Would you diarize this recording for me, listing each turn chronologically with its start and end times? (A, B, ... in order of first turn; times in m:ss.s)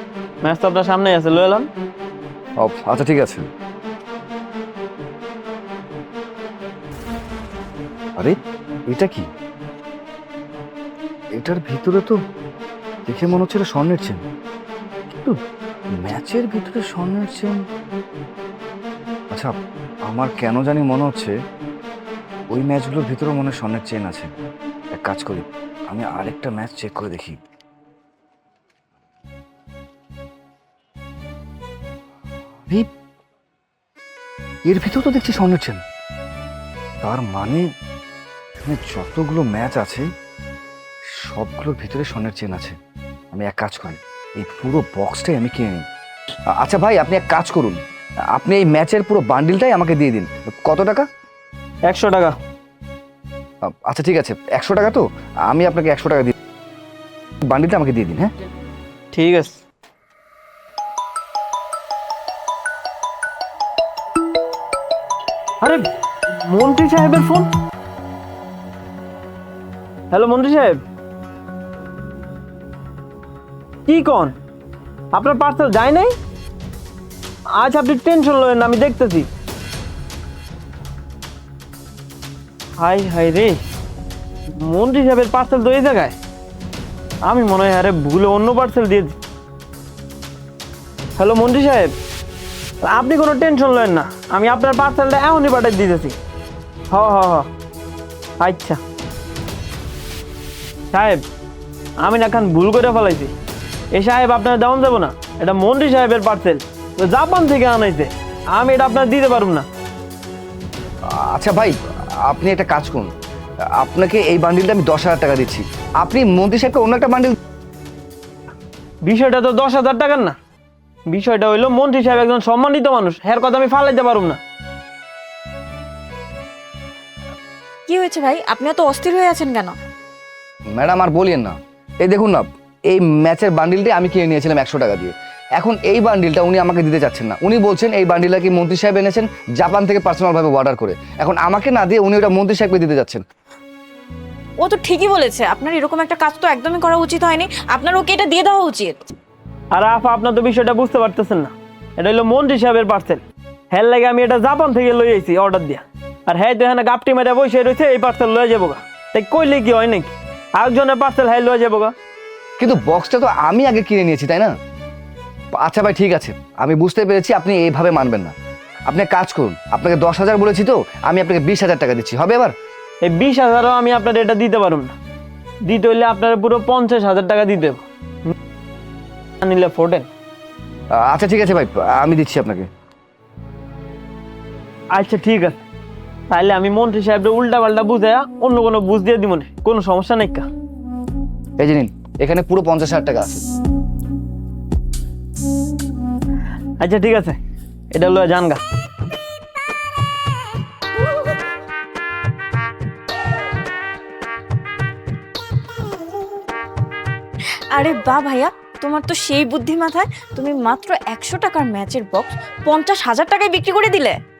0:00.4-0:01.7 A
0:02.6-0:03.4 B
0:08.9-0:09.3 B
0:11.4-0:12.2 B
0:13.1-0:14.2 B
0:15.1-0:15.4 B
0:16.0-0:17.6 B
0:20.1-0:21.3 B
0:22.5-0:24.3 B
0:24.9-0:27.4 B
0:34.6-0:35.8 B
0:37.0-0:37.6 B
0:38.6-0:40.0 B
0:41.1-0:42.8 B
0:43.3-0:45.8 B
0:46.5-0:47.8 B
0:48.3-0:51.0 B
0:51.9-0:52.4 A
0:53.6-0:56.3 B
0:57.4-0:58.3 B
0:59.1-0:59.6 A
1:05.6-1:07.5 A
1:10.1-1:10.8 A
1:13.8-1:14.4 A
1:15.1-1:16.1 A
1:17.5-1:19.3 A
1:22.8-1:23.6 A
1:24.5-1:26.2 A
1:27.2-1:29.2 A
1:31.2-1:31.9 A
1:32.8-1:36.2 A
1:36.9-1:37.5 A
1:38.4-1:38.8 A
1:40.9-1:41.2 A
1:42.0-1:43.3 A
1:43.9-1:49.6 A
1:51.1-1:53.1 B
1:53.8-1:57.3 B
1:59.0-2:00.4 A
2:01.1-2:04.4 A
2:07.9-2:09.7 C
2:10.7-2:23.2 B
2:24.6-2:29.1 C
2:29.7-2:41.9 A
2:42.6-2:44.5 B
2:45.5-2:48.3 B
2:48.9-2:52.5 B
2:53.0-2:54.9 A
2:55.6-2:58.3 A
2:59.4-3:00.1 A
3:00.9-3:02.7 B
3:04.9-3:05.6 A
3:06.3-3:10.5 A
3:11.6-3:13.4 B
3:16.8-3:17.4 A
3:17.9-3:18.6 A
3:27.7-3:34.2 C